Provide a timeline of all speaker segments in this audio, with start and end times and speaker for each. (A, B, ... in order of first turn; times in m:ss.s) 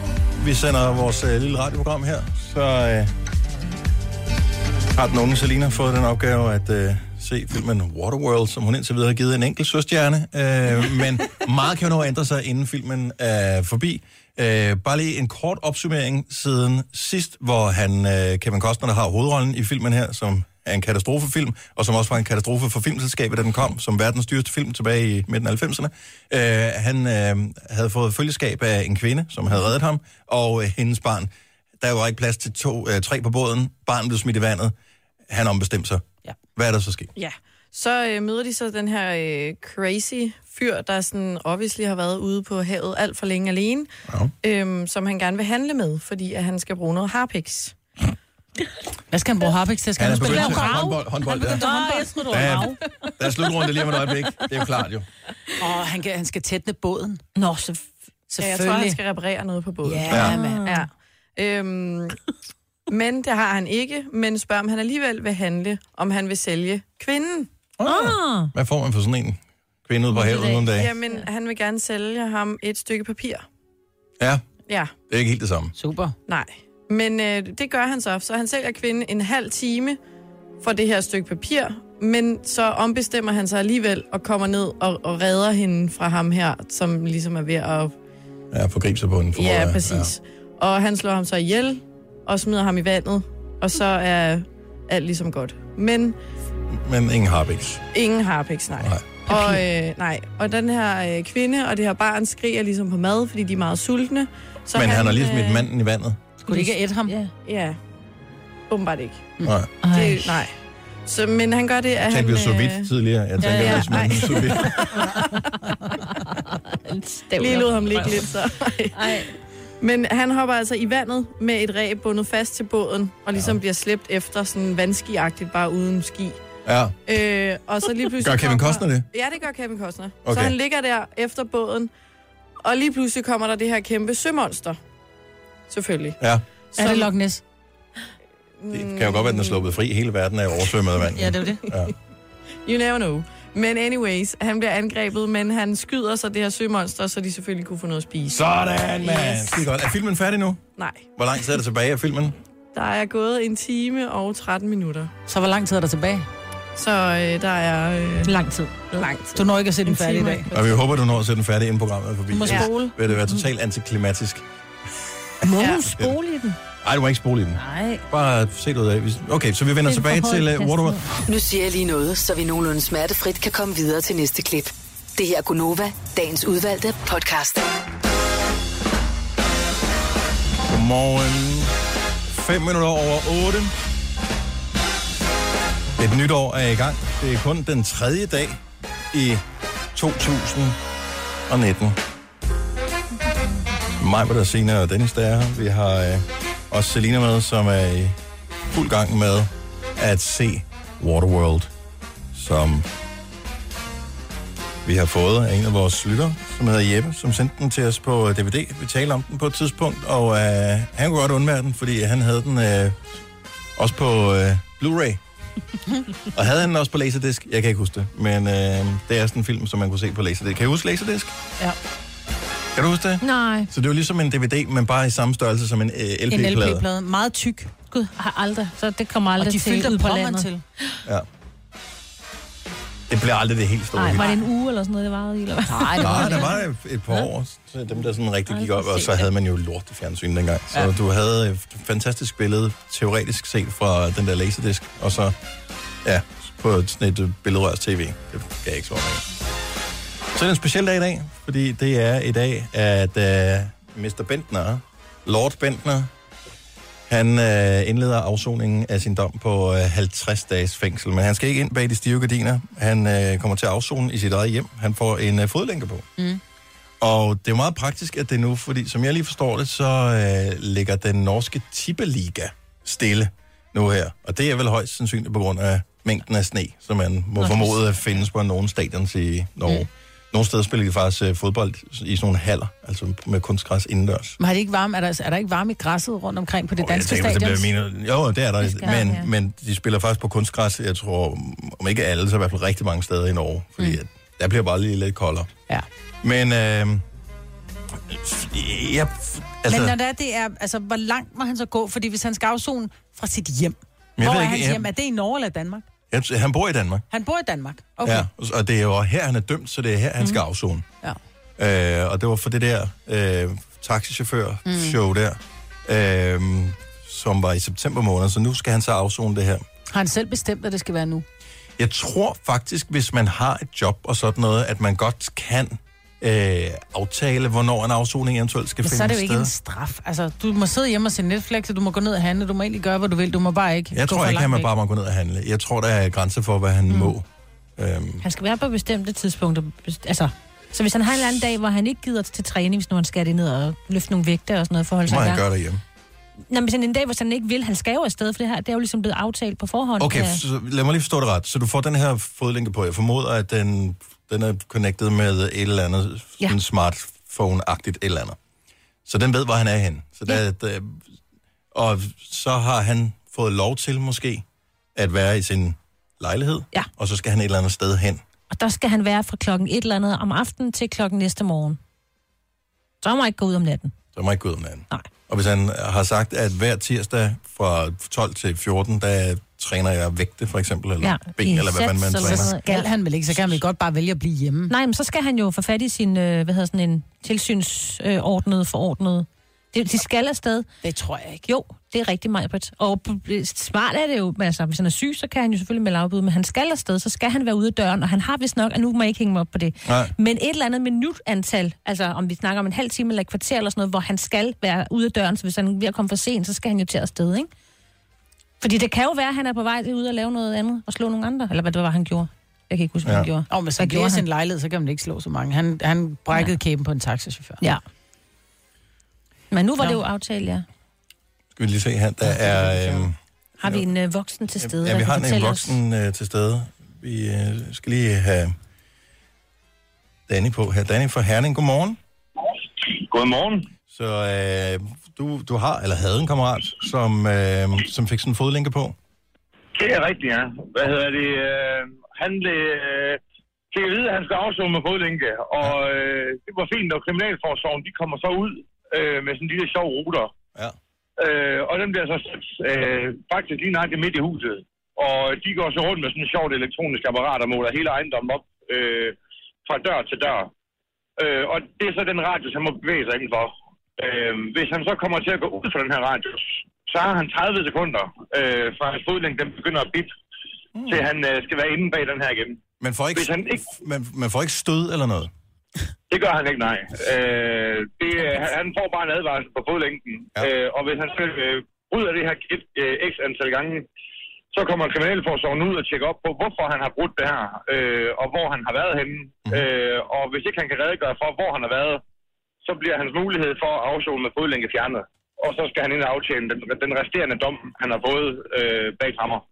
0:00.3-0:03.1 A
0:04.9-0:34.7 A
0:35.3-0:36.0 A
0:36.6-0:37.1 A
0:37.2-0:43.9 B
0:44.4-0:47.7 B
0:49.1-0:52.6 C
0:50.0-0:51.7 A
0:50.1-0:52.8 D
0:52.3-0:55.1 A
0:55.6-0:57.2 C
0:57.4-0:57.8 D
0:58.3-0:59.0 C
0:58.4-1:02.2 B
0:59.8-1:00.6 C
1:00.1-1:00.9 D
1:02.9-1:07.5 B
1:07.8-1:10.9 A
1:07.8-1:08.5 D
1:10.1-1:11.2 D
1:10.6-1:13.4 B
1:15.1-1:15.7 A
1:15.8-1:16.1 C
1:16.3-1:20.0 B
1:20.6-1:27.9 B
1:28.5-1:30.1 A
1:29.3-1:36.2 B
1:36.7-1:37.8 A
1:37.9-1:45.7 B
1:39.3-1:39.6 C
1:44.7-1:46.2 A
1:46.4-1:47.2 C
1:46.5-1:47.3 D
1:47.4-1:47.8 B
1:48.7-1:49.3 B
1:49.4-1:49.7 A
1:49.8-1:50.4 D
1:49.9-1:50.5 B
1:51.0-1:52.9 B
1:52.0-1:54.9 A
1:53.4-1:55.1 B
1:54.9-1:55.2 C
1:56.1-1:58.3 D
1:57.4-2:06.4 B
1:58.9-1:59.3 D
2:06.6-2:07.0 A
2:07.0-2:11.9 B
2:08.2-2:09.0 A
2:10.2-2:10.5 A
2:12.6-2:14.8 B
2:15.7-2:16.2 B
2:16.8-2:17.1 B
2:16.8-2:17.4 C
2:18.6-2:19.6 B
2:18.7-2:21.9 A
2:21.1-2:21.6 C
2:22.6-2:28.4 B
2:28.3-2:30.6 A
2:29.0-2:29.6 B
2:30.8-2:31.0 B
2:31.2-2:32.4 A
2:32.7-2:35.1 B
2:35.3-2:36.3 C
2:36.8-2:38.4 B
2:38.2-2:38.9 D
2:38.9-2:39.5 B
2:39.3-2:40.4 C
2:39.9-2:40.4 D
2:40.5-2:44.4 A
2:42.3-2:42.9 C
2:45.4-2:46.6 D
2:46.8-2:51.0 A
2:47.5-2:48.0 D
2:49.8-2:51.0 D
2:51.2-2:57.7 E
3:00.7-3:01.7 A
3:02.3-3:03.7 A
3:06.0-3:08.6 A
3:09.1-3:09.4 A
3:09.9-3:10.8 A
3:11.5-3:12.0 A
3:14.0-3:18.2 A
3:18.7-3:21.7 A
3:22.3-3:22.9 A
3:24.8-3:33.0 A
3:33.8-3:35.2 A
3:36.3-3:41.3 A
3:42.7-3:46.8 A
3:43.2-3:43.7 D
3:46.3-3:47.7 C
3:47.9-3:51.0 D
3:49.4-3:50.6 C
3:53.1-3:54.2 A
3:54.0-3:56.6 D
3:55.7-3:56.5 C
3:56.0-4:05.3 A
3:58.5-3:59.3 D
4:06.0-4:09.2 A
4:10.3-4:16.1 A
4:17.1-4:26.1 A
4:27.0-4:44.4 A
4:44.4-4:47.7 C
4:46.8-4:55.5 A
4:48.6-4:49.3 D
4:56.2-4:57.0 A
4:58.1-4:59.9 A
4:59.7-5:05.9 C
5:04.2-5:04.9 A
5:06.1-5:07.0 A
5:07.1-5:08.3 C
5:08.0-5:10.8 A
5:11.6-5:19.6 A
5:14.6-5:15.0 C
5:19.9-5:21.2 C
5:21.8-5:29.5 A
5:28.8-5:34.7 C
5:33.9-5:37.2 A
5:37.8-5:38.2 A
5:38.2-5:45.4 D
5:45.0-5:45.8 A
5:46.5-5:50.4 D
5:50.0-5:58.4 A
5:59.0-6:01.0 A
6:01.7-6:08.2 A
6:08.5-6:11.8 D
6:13.0-6:13.9 D
6:14.1-6:22.5 A
6:21.0-6:22.9 D
6:22.2-6:24.7 C
6:24.7-6:30.7 D
6:30.8-6:31.4 C
6:31.4-6:47.5 D
6:39.8-6:40.1 A
6:48.6-6:54.2 D
6:53.0-6:53.3 A
6:53.5-6:57.6 C
6:59.5-7:00.6 D
7:01.6-7:03.8 A
7:02.3-7:03.0 C
7:03.6-7:05.8 D
7:04.6-7:08.5 A
7:10.3-7:12.0 A
7:12.8-7:13.7 F
7:13.9-7:19.0 A
7:19.7-7:23.2 F
7:23.7-7:30.3 F
7:31.2-7:40.5 F
7:41.2-7:50.1 F
7:50.8-7:51.1 A
7:50.9-7:52.6 F
7:52.8-7:55.3 A
7:53.1-7:53.6 F
7:56.1-8:03.9 F
8:04.5-8:12.0 F
8:12.6-8:19.4 F